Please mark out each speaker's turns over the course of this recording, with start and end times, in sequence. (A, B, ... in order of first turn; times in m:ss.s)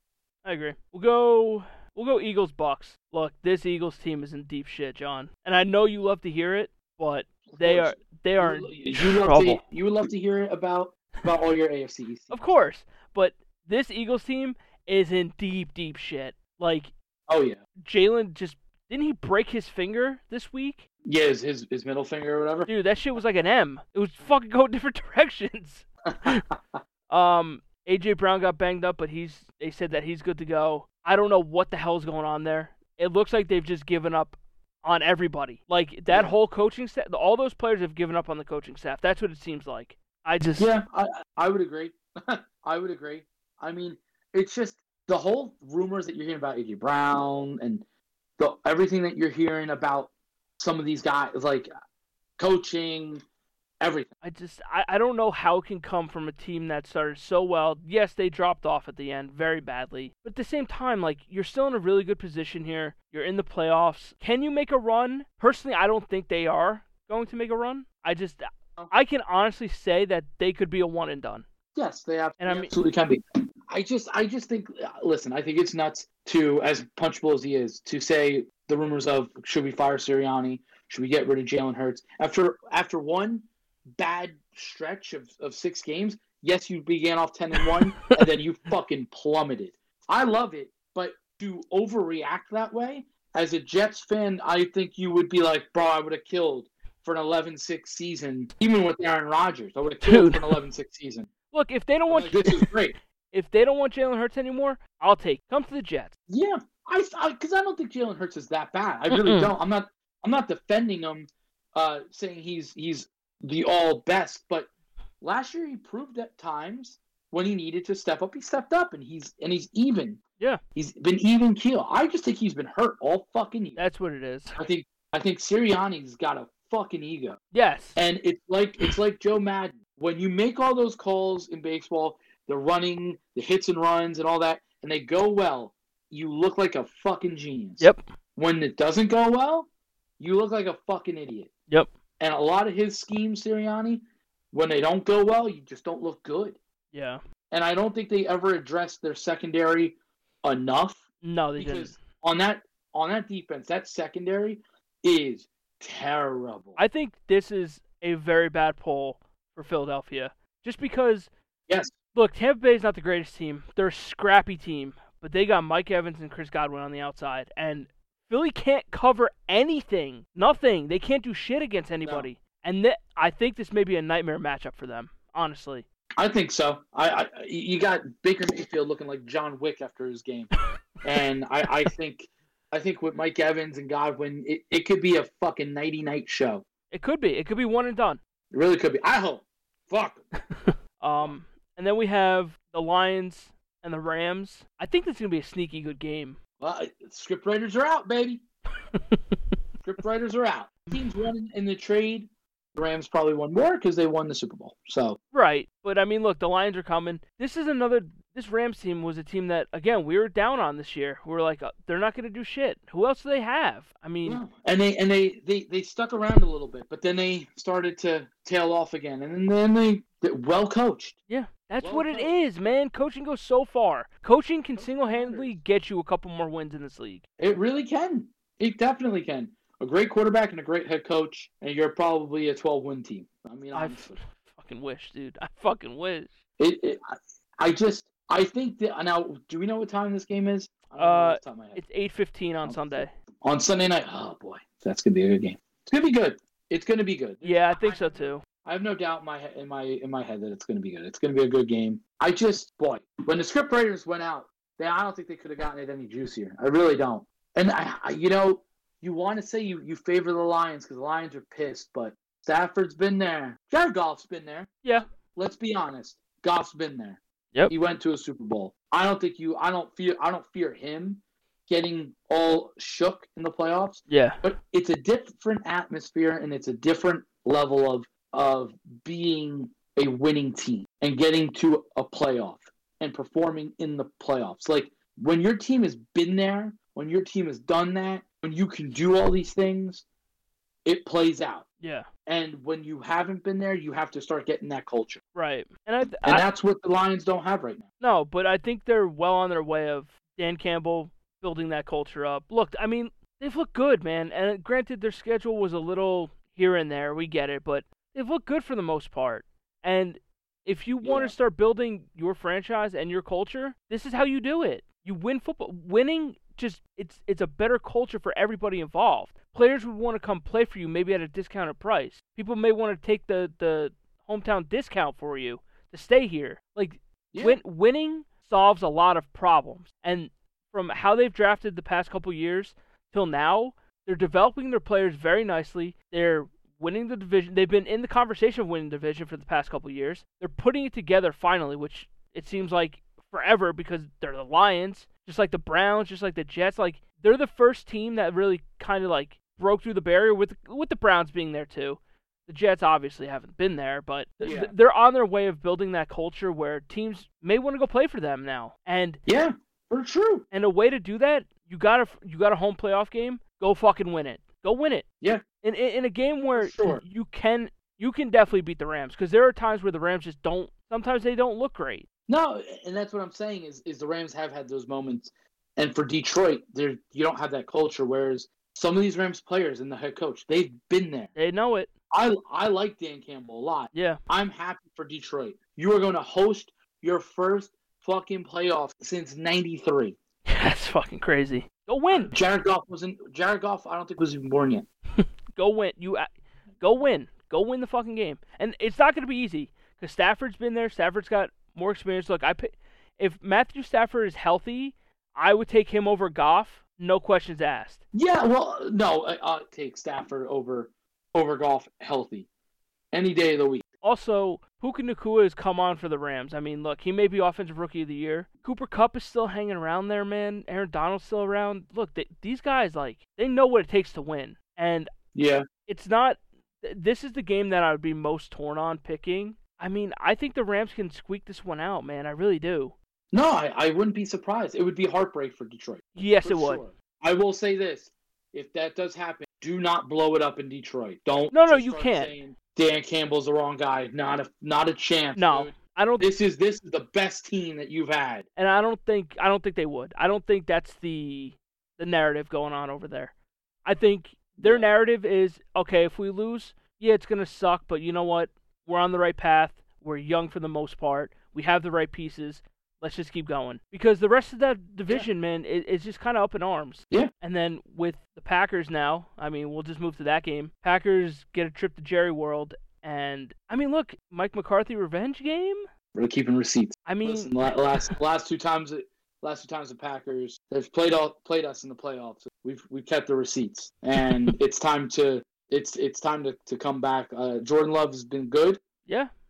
0:00.4-0:09.6 A
0:07.5-0:12.5 B
0:12.3-0:16.9 A
0:17.3-0:17.6 B
0:17.8-0:20.8 A
0:21.0-0:22.7 B
0:22.7-0:26.4 A
0:26.1-0:26.6 B
0:27.1-0:40.7 A
0:36.1-0:36.3 B
0:40.6-0:47.8 B
0:48.4-0:51.7 B
0:52.4-0:53.2 B
0:53.8-0:54.1 B
0:54.2-1:11.4 A
1:11.8-1:23.5 B
1:12.4-1:12.7 A
1:24.0-1:41.3 B
1:27.6-1:28.1 A
1:40.0-1:40.6 A
1:41.5-1:42.7 A
1:42.1-1:43.0 B
1:43.3-1:46.1 A
1:46.3-1:54.7 B
1:49.1-1:49.5 A
1:55.2-2:00.2 B
2:00.8-2:03.8 B
2:03.8-2:04.6 A
2:04.6-2:07.4 B
2:07.5-2:08.0 A
2:08.0-2:19.7 B
2:20.2-2:21.5 B
2:22.2-2:26.6 B
2:26.9-2:27.2 A
2:27.5-2:31.0 B
2:31.2-2:32.0 A
2:31.6-2:36.8 B
2:36.8-2:41.3 A
2:42.1-2:55.8 A
2:56.2-3:00.5 B
3:01.0-3:06.6 B
3:06.9-3:08.2 A
3:08.5-3:10.2 B
3:10.6-3:16.4 A
3:16.6-3:18.4 B
3:18.9-3:19.3 A
3:19.8-3:25.2 B
3:25.3-3:34.4 A
3:34.2-3:41.2 B
3:41.3-3:47.2 A
3:41.8-3:42.4 B
3:44.7-3:45.6 B
3:47.4-3:54.2 B
3:53.7-3:56.3 A
3:56.6-3:57.0 B
3:57.6-4:01.8 B
4:01.0-4:03.1 A
4:02.6-4:50.0 B
4:07.4-4:08.4 A
4:34.1-4:34.4 A
4:50.8-4:51.6 B
4:51.8-4:52.1 A
4:52.3-4:55.2 B
4:55.4-4:56.4 A
4:56.2-4:57.9 B
4:58.0-5:59.2 A
5:11.0-5:11.4 B
5:27.3-5:27.6 B
5:54.4-5:54.7 B
5:59.3-6:00.4 B
6:00.5-6:05.1 A
6:05.6-6:12.1 A
6:06.6-6:07.0 B
6:12.3-6:21.3 B
6:21.4-6:21.9 A
6:22.1-6:30.2 B
6:23.9-6:24.2 A
6:30.5-6:32.4 A
6:32.1-6:34.9 B
6:35.2-6:48.0 A
6:48.1-6:52.5 B
6:53.1-6:53.8 B
6:54.0-7:05.1 A
7:05.4-7:05.6 B
7:05.9-7:12.9 A
7:13.3-7:28.5 B
7:16.2-7:16.8 A
7:21.5-7:22.3 A
7:25.4-7:26.3 A
7:28.6-7:33.3 A
7:33.8-7:55.8 A
7:34.6-7:34.9 B
7:56.1-8:08.8 B
7:57.1-7:58.1 A